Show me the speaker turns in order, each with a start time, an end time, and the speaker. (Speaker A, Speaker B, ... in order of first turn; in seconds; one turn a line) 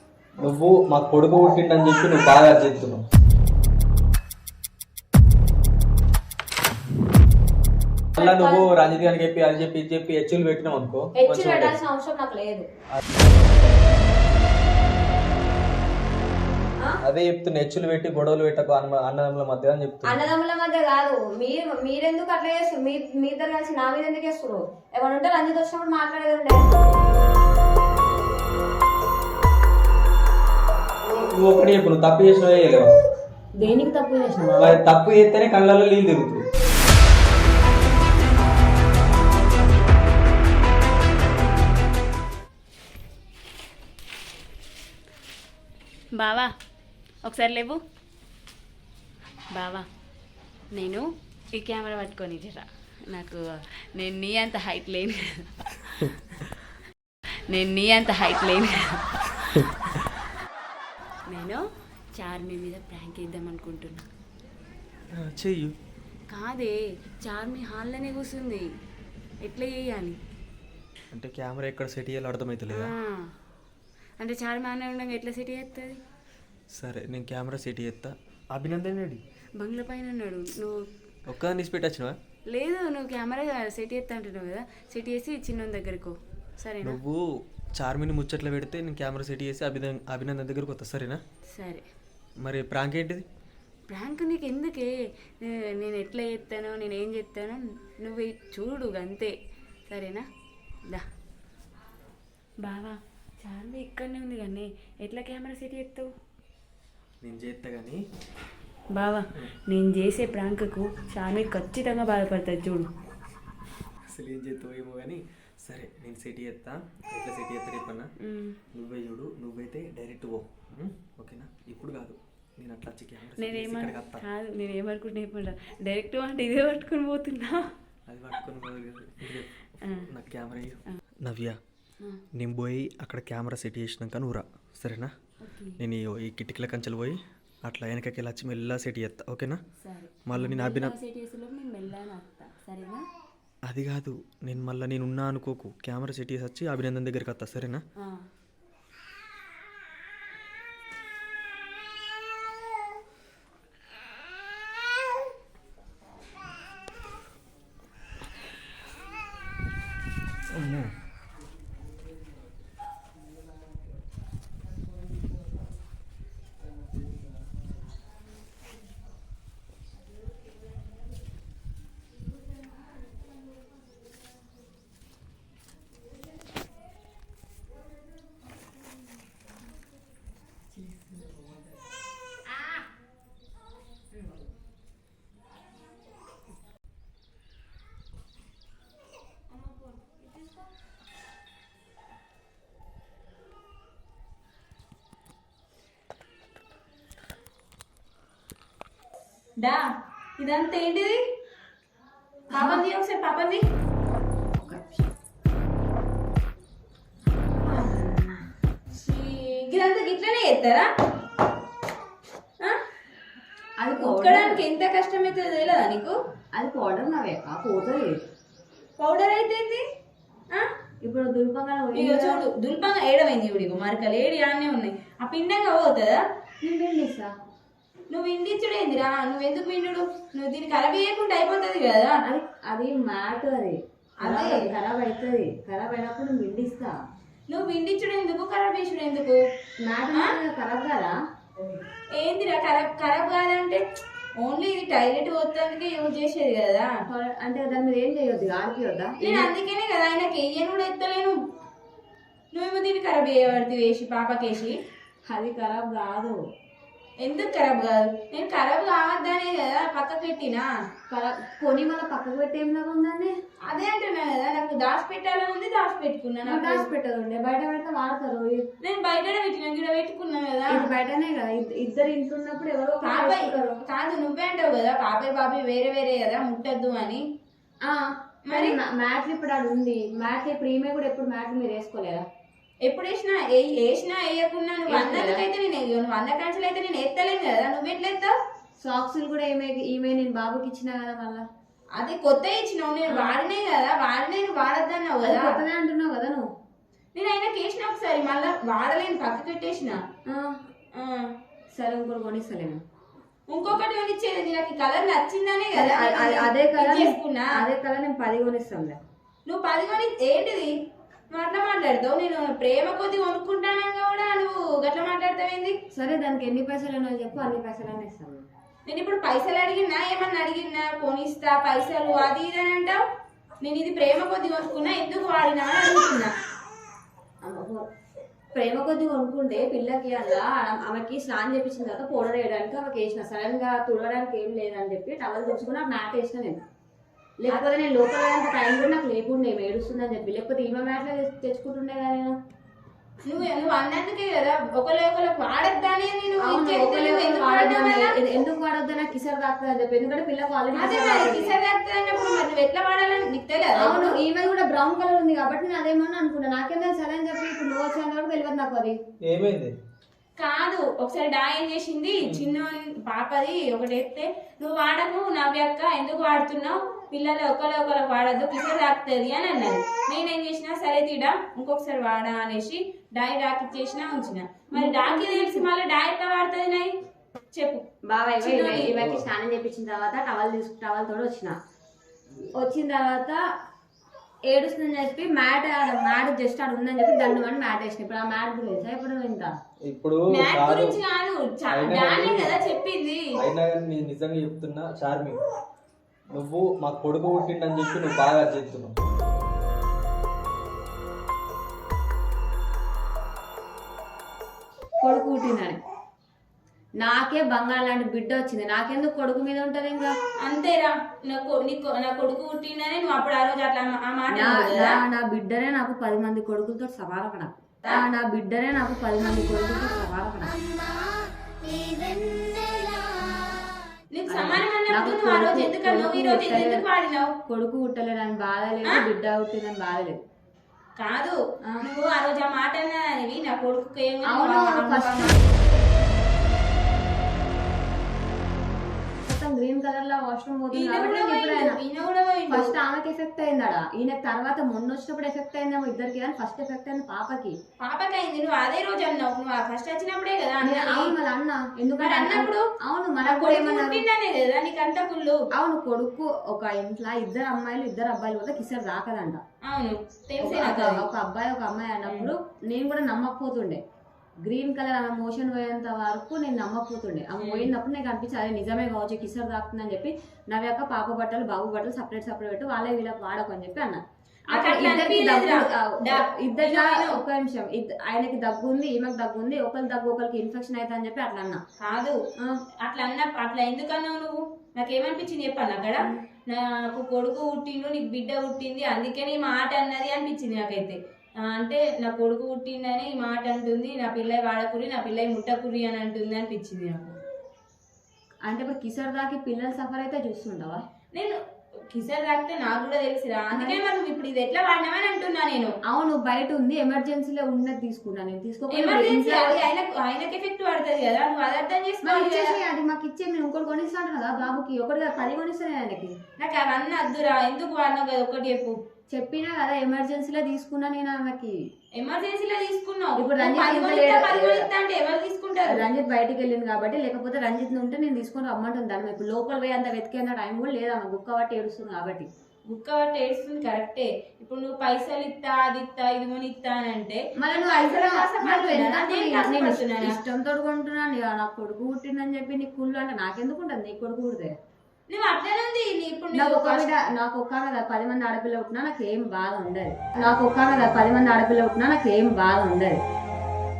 Speaker A: 0.4-3.0
Speaker A: 8.2-11.8
Speaker B: 8.2-8.7
Speaker B: 11.2-12.7
Speaker A: 17.0-20.2
Speaker B: 20.1-26.6
Speaker A: 31.0-32.9
Speaker B: 33.6-34.8
Speaker A: 34.6-36.4
Speaker C: 46.2-46.5
Speaker C: 47.3-47.8
Speaker C: 49.5-49.9
Speaker C: 50.7-53.4
Speaker C: 54.0-56.1
Speaker C: 57.5-59.7
Speaker C: 61.3-61.6
Speaker C: 62.2-64.0
Speaker A: 65.1-65.7
Speaker C: 66.3-68.7
Speaker C: 69.4-70.2
Speaker A: 71.1-72.9
Speaker C: 72.7-73.3
Speaker C: 74.2-76.0
Speaker A: 76.7-79.2
Speaker C: 79.6-80.8
Speaker A: 81.3-82.2
Speaker C: 82.5-87.0
Speaker A: 86.8-87.2
Speaker A: 87.8-91.2
Speaker C: 91.5-91.8
Speaker A: 92.4-93.2
Speaker C: 93.9-99.3
Speaker C: 99.9-100.2
Speaker C: 102.6-106.1
Speaker A: 107.2-108.0
Speaker C: 108.9-112.9
Speaker A: 114.1-118.1
Speaker C: 118.2-118.6
Speaker A: 118.7-124.2
Speaker C: 123.4-127.6
Speaker A: 128.1-129.5
Speaker C: 129.8-130.1
Speaker A: 130.1-131.6
Speaker A: 132.3-135.1
Speaker C: 135.4-135.8
Speaker A: 135.8-139.6
Speaker C: 139.8-143.0
Speaker A: 140.2-140.9
Speaker A: 143.7-147.8
Speaker A: 160.6-160.9
Speaker D: 199.6-199.8
Speaker D: 200.4-201.2
Speaker D: 202.5-203.6
Speaker B: 202.5-202.8
Speaker B: 204.6-205.0
Speaker D: 207.7-208.1
Speaker B: 207.8-208.3
Speaker D: 208.9-210.9
Speaker B: 213.8-214.6
Speaker D: 213.9-216.1
Speaker B: 216.5-218.1
Speaker D: 219.0-219.8
Speaker B: 221.0-222.4
Speaker D: 221.9-226.2
Speaker B: 226.6-227.3
Speaker D: 228.1-232.2
Speaker B: 232.2-236.9
Speaker D: 234.2-234.7
Speaker D: 237.5-239.4
Speaker B: 239.8-241.1
Speaker D: 242.2-243.8
Speaker D: 244.4-246.9
Speaker B: 247.1-249.5
Speaker D: 249.2-251.4
Speaker D: 252.5-254.7
Speaker B: 255.3-256.4
Speaker D: 257.2-260.7
Speaker B: 261.1-263.3
Speaker D: 263.7-266.9
Speaker B: 266.5-268.6
Speaker D: 268.8-270.9
Speaker B: 270.7-273.8
Speaker D: 273.0-277.2
Speaker B: 277.9-282.2
Speaker D: 278.5-278.8
Speaker D: 282.9-288.3
Speaker B: 284.9-285.4
Speaker B: 288.8-291.4
Speaker D: 292.0-295.6
Speaker B: 293.1-293.4
Speaker B: 295.2-296.5
Speaker D: 297.1-300.0
Speaker B: 300.3-300.6
Speaker D: 300.9-301.3
Speaker B: 301.8-302.8
Speaker D: 303.5-307.5
Speaker B: 305.7-309.0
Speaker D: 309.5-310.7
Speaker D: 311.3-315.8
Speaker B: 315.9-318.4
Speaker D: 318.9-323.0
Speaker D: 323.6-326.3
Speaker B: 327.4-327.8
Speaker B: 328.6-336.6
Speaker B: 337.4-342.3
Speaker D: 343.2-348.1
Speaker B: 346.4-351.6
Speaker D: 350.7-354.2
Speaker B: 353.8-359.0
Speaker A: 359.3-359.7
Speaker D: 360.4-376.9
Speaker B: 374.7-375.7
Speaker D: 377.5-377.8
Speaker B: 378.1-381.5
Speaker D: 378.4-378.9
Speaker A: 378.7-379.2
Speaker B: 382.6-383.4
Speaker B: 384.5-389.5
Speaker A: 389.9-391.0
Speaker D: 390.3-393.2
Speaker A: 391.7-392.6
Speaker A: 393.4-395.4
Speaker A: 396.3-398.9
Speaker B: 405.0-405.8
Speaker B: 407.0-410.1
Speaker D: 410.4-415.0
Speaker B: 414.3-420.6
Speaker B: 422.0-422.9
Speaker D: 424.1-427.3
Speaker B: 424.3-426.9
Speaker B: 427.5-430.2
Speaker D: 431.0-435.4
Speaker B: 434.2-435.4
Speaker B: 439.2-441.8
Speaker D: 440.7-442.8
Speaker B: 442.5-447.5
Speaker D: 447.8-451.1
Speaker B: 450.6-454.0
Speaker D: 452.0-452.6
Speaker D: 453.2-455.4
Speaker B: 455.6-459.4
Speaker D: 459.6-461.1
Speaker B: 460.4-463.8
Speaker D: 462.1-462.3
Speaker B: 464.5-474.0
Speaker D: 467.4-467.7
Speaker D: 474.5-477.2
Speaker B: 474.5-481.6
Speaker D: 481.8-482.2
Speaker D: 482.8-497.2
Speaker B: 498.5-500.8
Speaker D: 501.9-505.7
Speaker B: 503.5-503.8
Speaker B: 505.9-509.6
Speaker D: 508.7-512.5
Speaker B: 512.0-516.1
Speaker D: 516.4-518.8
Speaker B: 519.1-521.6
Speaker D: 522.0-525.9
Speaker B: 523.2-524.7
Speaker B: 525.6-532.3
Speaker D: 532.7-540.2
Speaker B: 537.4-544.5
Speaker D: 545.1-546.9
Speaker B: 546.3-553.0